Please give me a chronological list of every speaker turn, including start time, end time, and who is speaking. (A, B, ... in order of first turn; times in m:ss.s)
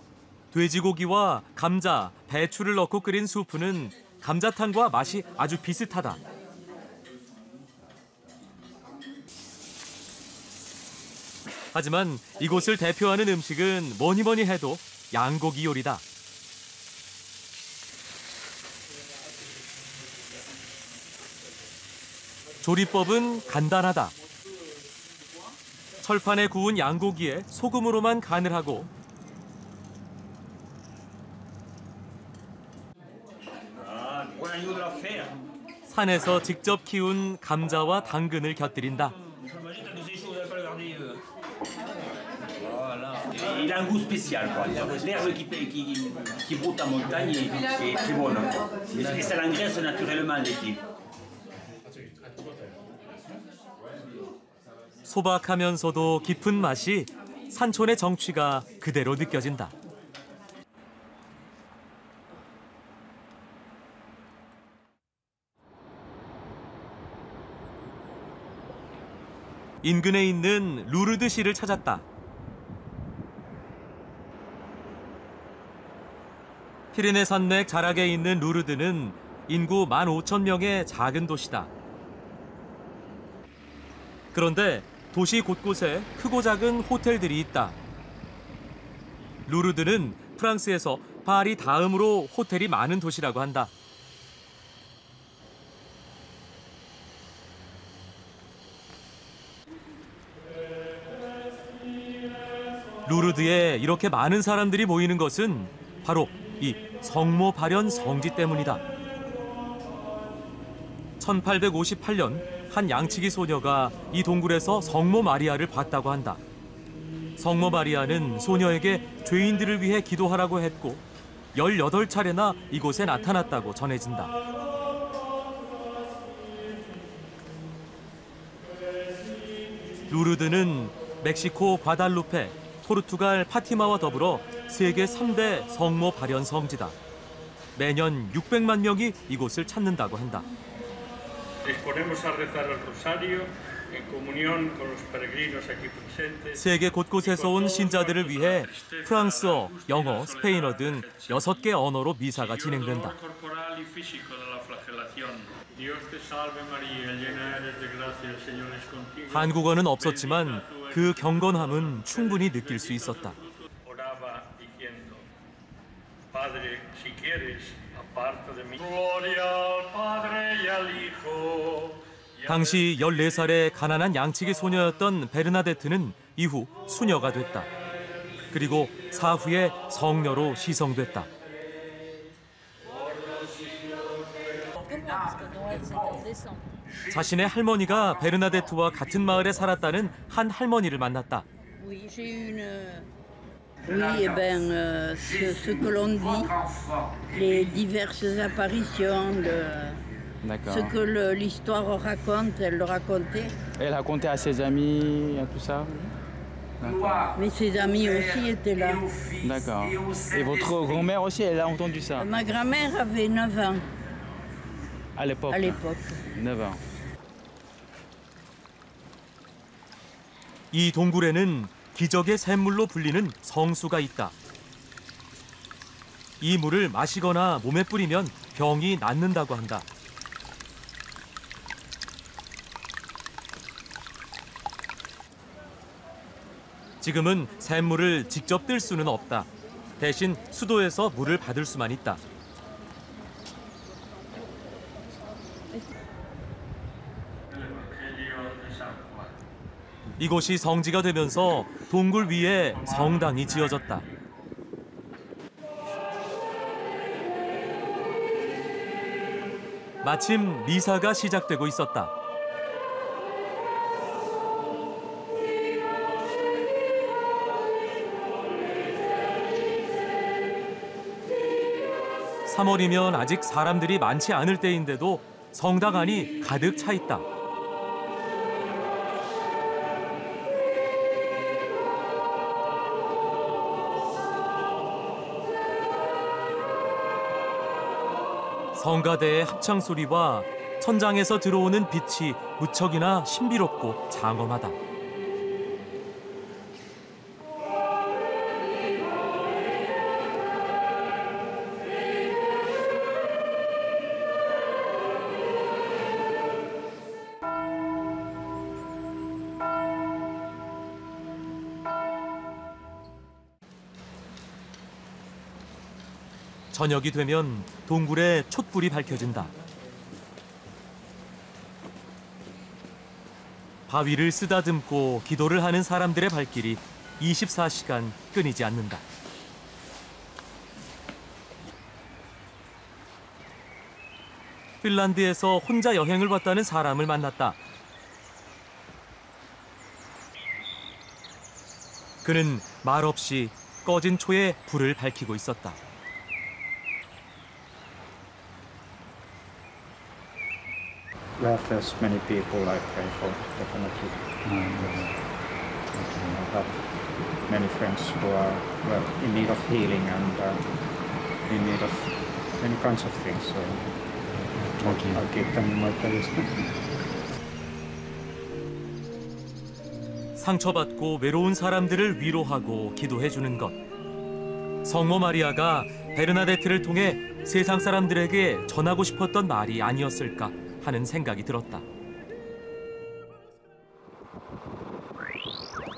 0:00.5-0:06.2 A
0:11.7-0:16.0 A
0:22.6-0:24.1 A
0:26.0-0:28.9 A
0:33.8-0:35.4 B
0:35.9-0:39.1 A
0:39.4-0:41.2 B
0:43.0-0:50.8 B
0:55.1-0:59.7 A
1:09.8-1:12.0 A
1:16.9-1:21.7 A
1:24.3-1:27.7 A
1:29.5-1:33.7 A
1:43.0-1:48.8 A
1:51.2-1:56.4 A
1:57.4-2:04.3 A
2:10.1-2:17.0 A
2:17.8-2:20.4 A
2:21.6-2:26.6 C
2:26.5-2:33.2 A
2:27.2-2:31.7 C
2:32.4-2:45.2 C
2:39.3-2:43.4 A
2:46.3-2:53.4 C
2:52.5-2:57.7 A
2:58.5-3:01.3 A
3:07.1-3:11.4 A
3:11.8-3:13.0 D
3:13.8-3:16.5 D
3:17.3-3:20.0 D
3:20.4-3:20.9 E
3:20.7-3:23.5 D
3:23.8-3:26.1 E
3:26.8-3:27.2 E
3:27.3-3:29.0 D
3:29.4-3:32.3 E
3:32.2-3:33.8 D
3:35.2-3:36.8 E
3:35.5-3:36.1 D
3:40.7-3:44.3 A
3:46.4-3:49.8 A
3:57.0-3:59.5 A
4:00.0-4:02.2 A
4:07.5-4:09.3 C
4:10.2-4:14.0 A
4:12.9-4:13.8 C
4:20.0-4:22.1 A
4:32.4-4:37.2 A
4:48.8-4:54.8 A
5:16.7-5:19.5 A
5:23.9-5:29.0 A
5:34.8-5:37.6 A
5:42.2-5:45.8 A
5:51.4-5:55.1 F
5:55.9-6:00.7 F
6:01.4-6:03.9 F
6:04.8-6:06.7 F
6:10.4-6:13.8 A
6:14.8-6:21.8 A